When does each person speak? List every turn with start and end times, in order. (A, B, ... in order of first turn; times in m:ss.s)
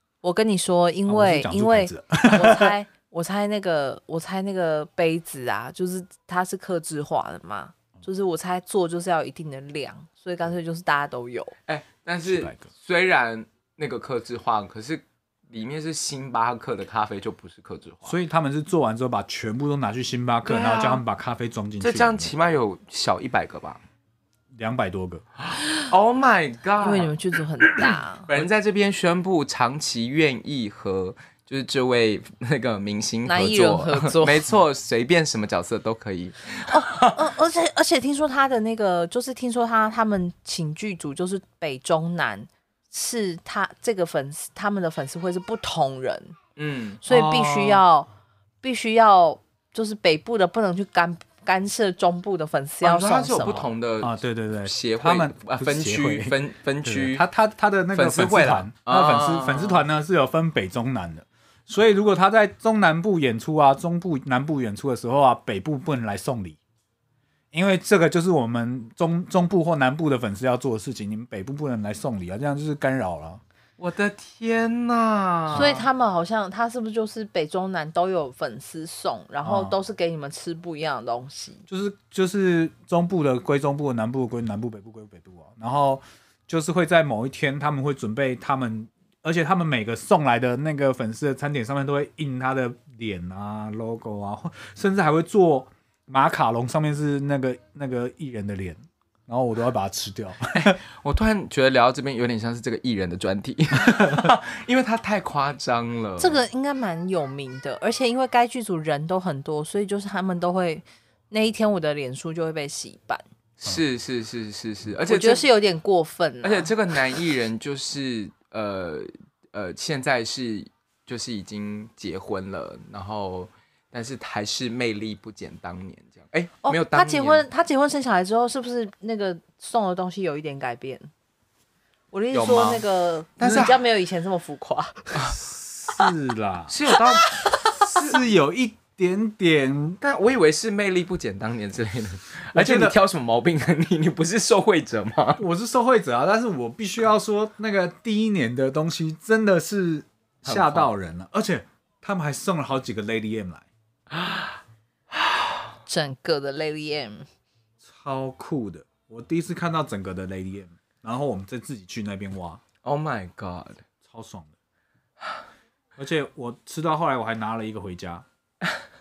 0:00.2-0:11.5 A
0:01.1-0:02.7 B
0:11.7-0:18.2 C
0:12.2-0:12.6 B
0:18.0-0:22.3 B
0:20.4-0:21.0 C
0:21.8-0:23.8 C
0:24.5-0:25.2 B
0:25.5-0:27.1 C
0:26.8-0:28.3 A
0:27.7-0:37.3 C
0:33.2-0:34.4 A
0:36.7-0:46.3 A
0:46.6-0:47.0 C
0:47.0-0:48.1 A
0:47.1-0:47.8 B
0:48.6-0:53.7 A
0:52.8-0:57.2 C
0:54.0-1:06.6 B
0:57.9-0:59.8 C
1:07.5-1:13.4 B
1:13.8-1:15.8 C
1:15.5-1:21.6 A
1:19.4-1:19.8 B
1:21.7-1:40.8 B
1:40.6-1:46.4 C
1:43.9-1:44.3 B
1:46.2-1:53.2 A
1:53.6-1:55.4 C
1:55.0-1:56.7 A
1:56.4-2:07.4 C
2:06.6-2:11.1 A
2:12.1-2:15.3 A
2:12.3-2:12.8 C
2:13.4-2:13.8 C
2:15.4-2:16.7 B
2:16.7-2:18.2 C
2:18.0-2:20.0 B
2:20.0-2:25.4 C
2:22.5-2:23.0 B
2:25.4-2:33.6 B
2:30.4-2:30.9 C
2:34.1-2:34.6 C
2:35.1-2:35.6 C
2:35.9-2:37.2 A
2:37.8-2:42.6 B
2:42.8-2:43.8 C
2:44.0-2:44.5 B
2:46.0-2:48.2 B